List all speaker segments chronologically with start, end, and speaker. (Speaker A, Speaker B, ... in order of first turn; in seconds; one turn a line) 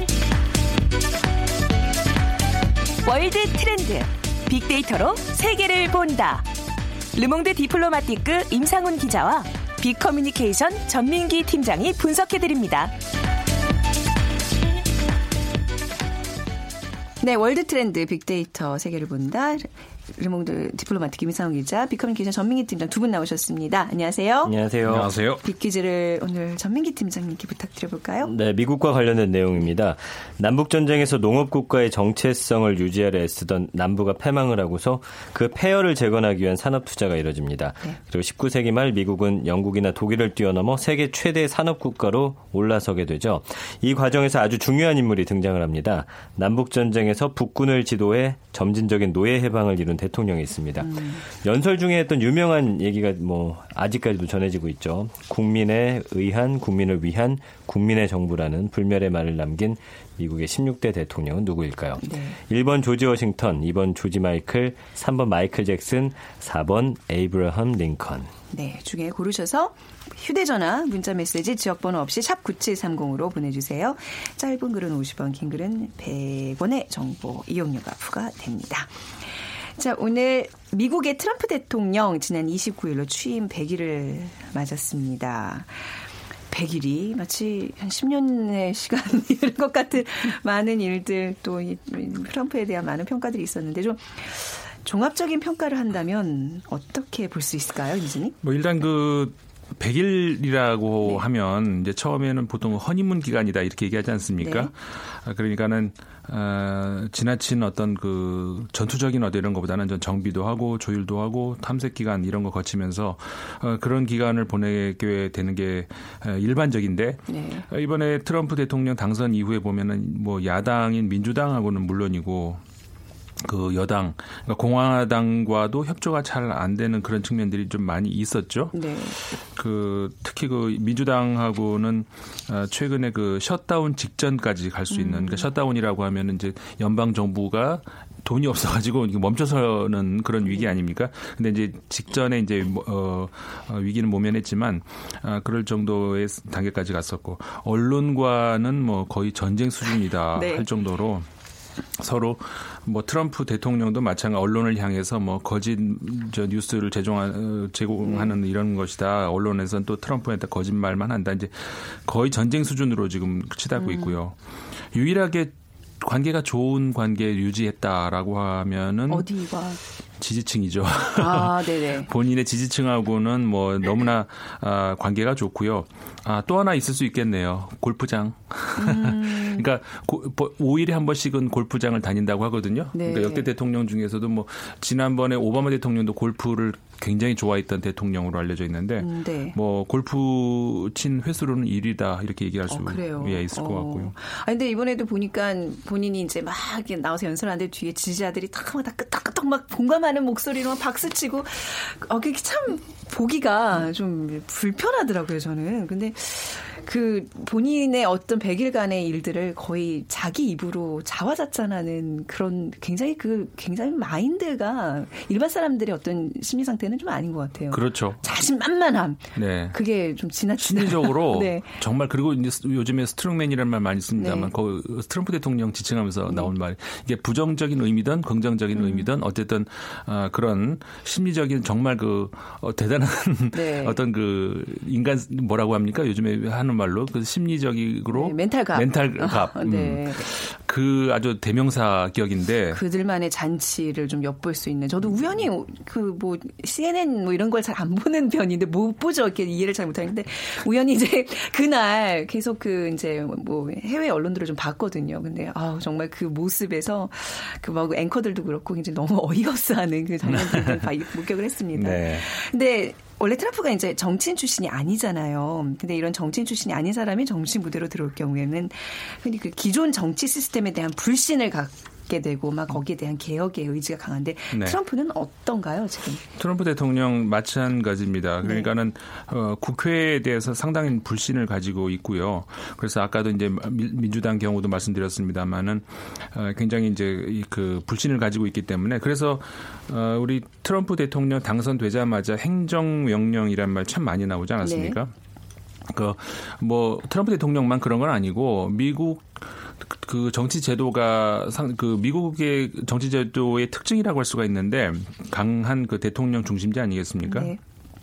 Speaker A: 3.0-6.5
Speaker A: 7.1-12.9
Speaker B: 17.2-24.6
Speaker C: 24.4-25.1
Speaker D: 24.9-25.4
Speaker B: 25.4-28.3
Speaker C: 28.2-68.3
Speaker B: 50.8-51.2
Speaker B: 62.0-62.4
Speaker B: 68.5-78.9
Speaker B: 79.8-85.7
Speaker B: 86.5-98.3
Speaker D: 98.4-122.6
Speaker B: 104.4-104.7
Speaker B: 117.3-117.6
Speaker D: 123.4-151.3
Speaker B: 128.7-129.2
Speaker B: 134.9-135.5
Speaker B: 150.3-150.7
Speaker D: 151.9-164.3
Speaker B: 158.0-158.4
Speaker B: 163.8-164.2
Speaker D: 164.9-169.3
Speaker B: 169.1-169.8
Speaker D: 170.2-194.1
Speaker B: 171.2-172.1
Speaker B: 178.8-179.7
Speaker B: 182.9-183.5
Speaker B: 189.0-189.6
Speaker B: 192.7-221.8
Speaker D: 217.7-218.4
Speaker D: 219.3-219.8
Speaker D: 220.6-242.8
Speaker B: 224.2-224.5
Speaker B: 228.7-229.1
Speaker B: 233.5-234.0
Speaker B: 238.1-240.2
Speaker B: 242.7-276.2
Speaker D: 260.3-260.9
Speaker D: 261.8-262.2
Speaker D: 274.5-274.8
Speaker D: 276.4-295.1
Speaker B: 278.4-278.7
Speaker B: 294.6-295.0
Speaker D: 295.9-307.5
Speaker B: 307.2-307.6